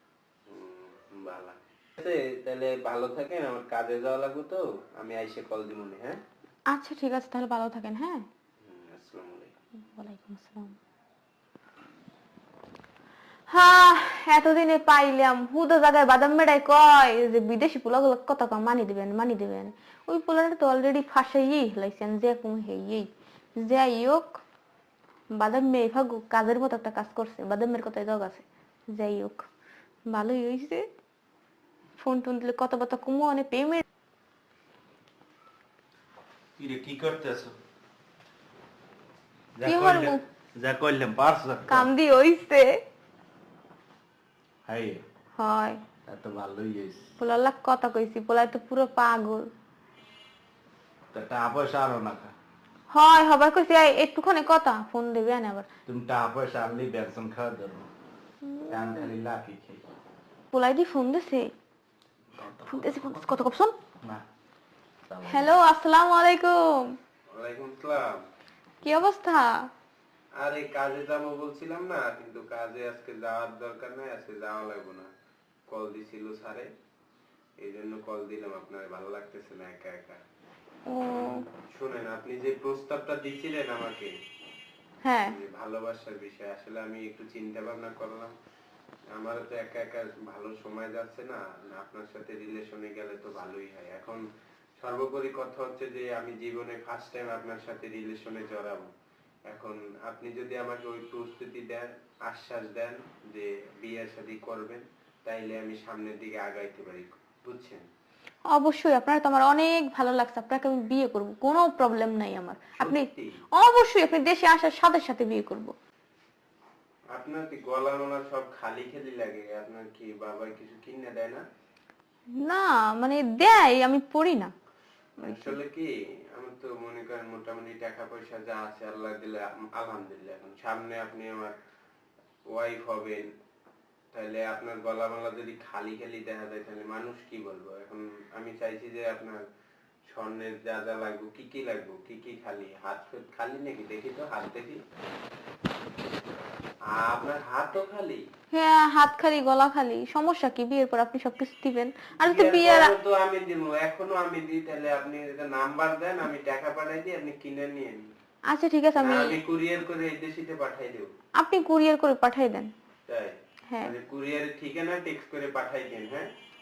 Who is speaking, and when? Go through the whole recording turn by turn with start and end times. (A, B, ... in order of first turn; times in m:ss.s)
0:00.5-0:06.2 A
0:06.7-0:08.3 B
0:08.6-0:09.5 A
0:10.0-0:10.8 B
0:13.5-0:24.4 B
0:25.4-0:29.5 B
0:30.1-0:30.9 B
0:32.0-0:33.8 B
0:36.6-0:37.6 C
0:39.6-0:41.9 C
0:39.6-0:40.2 B
0:41.7-0:42.8 B
0:44.7-0:45.0 C
0:45.4-0:45.8 B
0:46.1-0:47.1 C
0:47.2-0:49.5 B
0:51.1-0:52.3 C
0:52.9-0:55.7 B
0:55.9-0:57.9 C
0:58.6-0:59.1 B
0:58.7-0:59.8 C
1:00.5-1:01.5 B
1:02.4-1:03.4 C
1:02.7-1:03.7 B
1:05.1-1:05.5 C
1:05.3-1:07.0 B
1:07.3-1:08.3 A
1:08.8-1:09.7 B
1:10.4-1:15.1 A
1:15.7-1:16.7 A
1:17.6-1:20.2 A
1:20.9-1:21.4 B
1:21.2-1:24.1 A
1:25.0-1:25.4 B
1:25.3-1:28.3 A
1:29.1-1:34.2 A
1:34.8-1:38.9 A
1:39.5-1:47.8 A
1:48.5-1:55.8 B
1:52.8-1:53.4 A
1:57.1-2:01.4 A
2:02.4-2:04.5 B
2:05.2-2:05.6 B
2:05.2-2:11.6 A
2:12.5-2:13.3 A
2:14.1-2:19.4 A
2:20.1-2:24.8 A
2:26.9-2:28.2 A
2:28.5-2:32.9 B
2:32.2-2:38.1 A
2:38.5-2:39.4 B
2:39.0-2:41.1 A
2:41.4-2:42.7 B
2:43.1-2:46.3 A
2:43.7-2:43.9 B